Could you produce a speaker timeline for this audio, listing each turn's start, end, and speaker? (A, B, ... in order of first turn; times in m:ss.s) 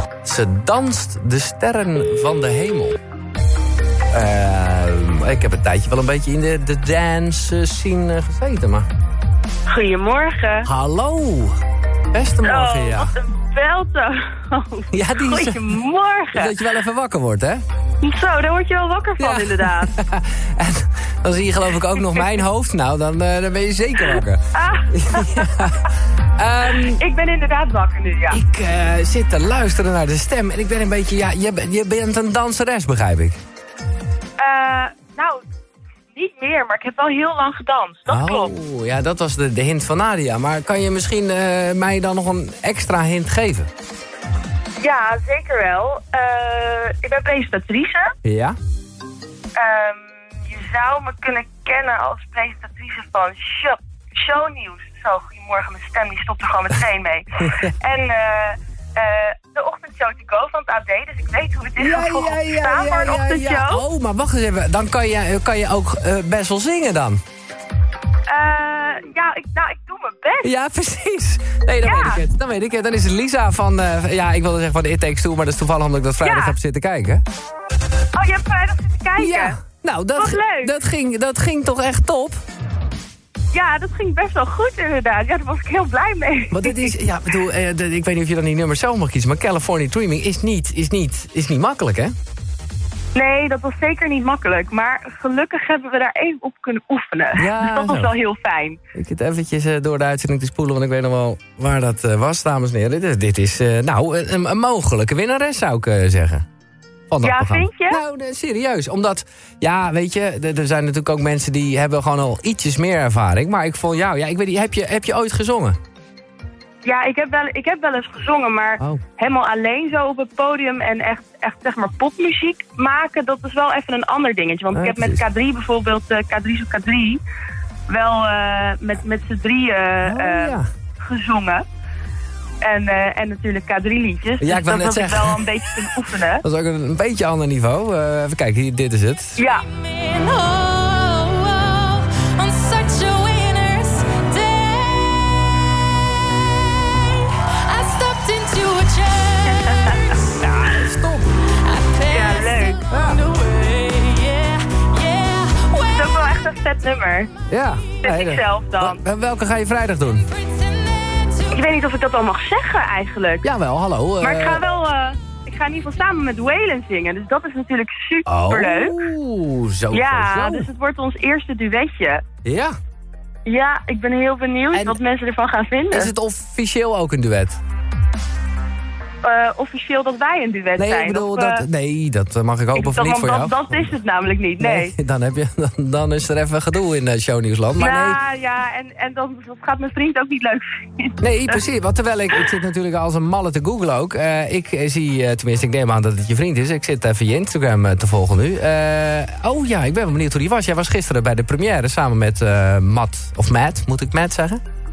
0:00.2-0:03.0 A
0:04.1-0:08.8 A
0:09.7-0:10.7 B
0:10.6-0:11.6 A
0:12.1-0:13.1 A
0:12.4-0:16.5 B
0:14.9-0:15.8 A
0:16.3-0:17.6 A
0:18.0-0:19.9 B
0:19.2-0:27.0 A
0:24.1-0:25.7 B
0:26.9-0:28.4 B
0:28.3-0:33.4 A
0:34.4-0:35.4 B
0:36.1-0:38.5 B
0:38.1-0:43.7 A
0:44.8-0:48.1 B
0:48.2-0:48.6 A
0:49.5-1:03.8 B
1:01.8-1:07.2 A
1:08.3-1:10.5 B
1:10.4-1:17.2 A
1:11.8-1:12.2 B
1:16.2-1:16.6 B
1:18.1-1:19.6 B
1:19.2-1:22.4 A
1:20.2-1:20.7 B
1:23.5-1:26.9 B
1:26.5-1:32.1 A
1:33.1-1:38.8 B
1:37.4-1:38.1 A
1:38.9-1:46.4 A
1:47.1-1:55.8 A
1:47.2-1:48.0 B
1:56.8-2:07.2 B
2:04.7-2:05.2 A
2:07.9-2:11.6 B
2:10.0-2:10.7 A
2:12.6-2:16.4 B
2:14.4-2:15.4 A
2:16.4-2:19.4 A
2:19.4-2:19.7 B
2:19.8-2:25.3 C
2:27.0-2:30.1 C
2:29.6-2:30.2 B
2:30.3-2:31.3 A
2:31.6-2:36.0 C
2:32.1-2:32.8 B
2:32.8-2:33.2 A
2:35.9-2:37.3 B
2:37.5-2:40.3 A
2:38.0-2:39.0 B
2:40.4-2:41.5 C
2:41.5-2:43.4 B
2:43.4-2:44.6 A
2:44.2-2:49.0 B
2:48.2-2:50.7 A
2:49.9-2:52.2 B
2:52.4-2:52.7 A
2:53.4-2:56.1 B
2:54.7-2:55.0 A
2:55.9-2:57.6 A
2:59.2-3:01.6 B
3:00.8-3:03.9 A
3:02.7-3:04.9 B
3:04.6-3:08.2 A
3:07.8-3:11.6 B
3:11.2-3:24.6 A